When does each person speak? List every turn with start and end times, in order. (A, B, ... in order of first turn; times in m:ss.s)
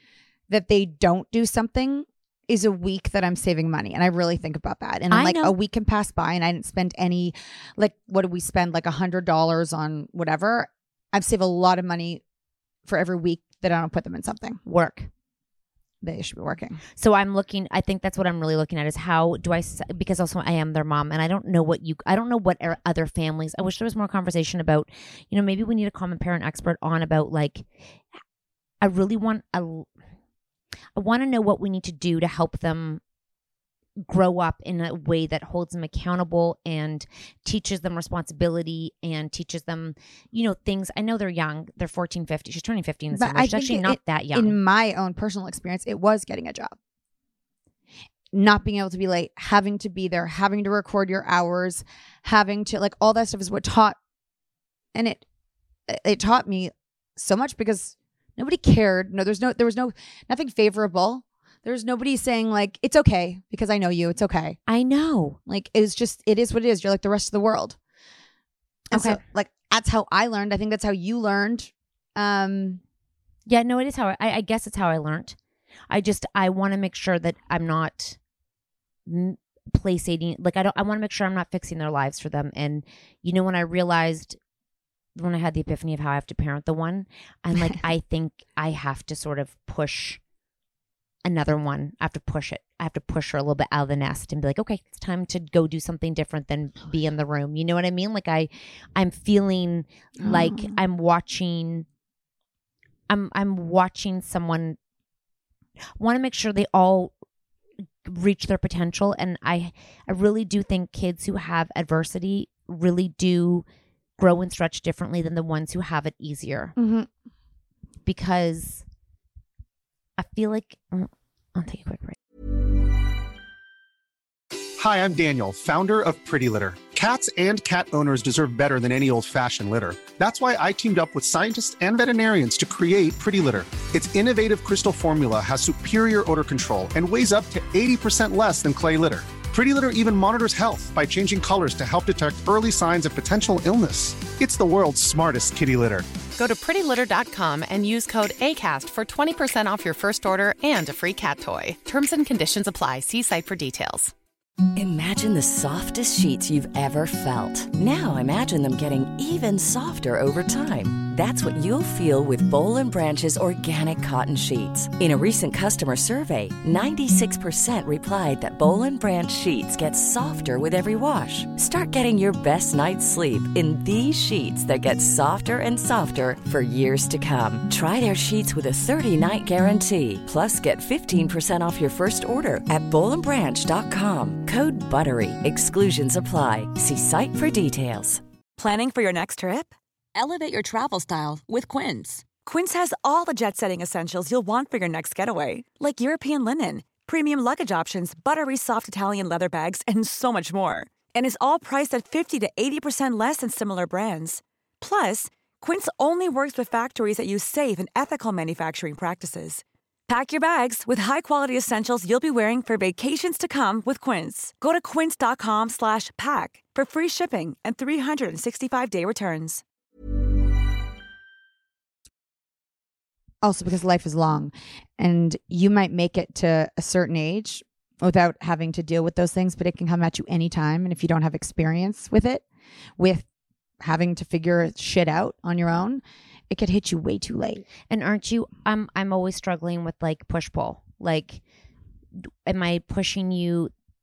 0:00.5-0:12.2 A
0:05.1-0:05.6 B
0:12.8-0:14.6 A
0:14.6-0:15.1 B
0:16.0-0:16.8 A
0:17.0-0:27.6 B
0:28.8-0:29.9 B
0:31.0-0:33.0 B
0:34.0-0:44.6 B
0:43.1-0:46.7 A
0:48.3-0:54.0 A
0:54.9-0:55.2 A
0:55.9-1:04.6 A
1:04.7-1:05.4 B
1:05.5-1:07.8 A
1:08.9-1:12.8 A
1:08.9-1:09.2 B
1:13.5-1:15.4 B
1:15.9-1:18.2 B
1:19.0-1:24.4 B
1:25.2-1:30.2 B
1:31.2-1:41.8 B
1:40.2-1:40.8 A
1:43.1-1:44.8 B
1:46.0-1:47.1 B
1:48.0-1:53.6 B
1:54.2-1:56.7 B
1:56.8-1:57.1 A
1:58.0-1:58.8 B
2:00.2-2:02.2 B
2:04.8-2:26.0 C
2:26.3-2:34.1 D
2:34.7-3:08.2 E
3:08.6-3:39.6 F
3:43.4-3:52.4 A
3:53.0-3:53.2 A
3:53.8-3:57.6 A
3:57.9-4:01.4 B
4:02.4-4:03.7 B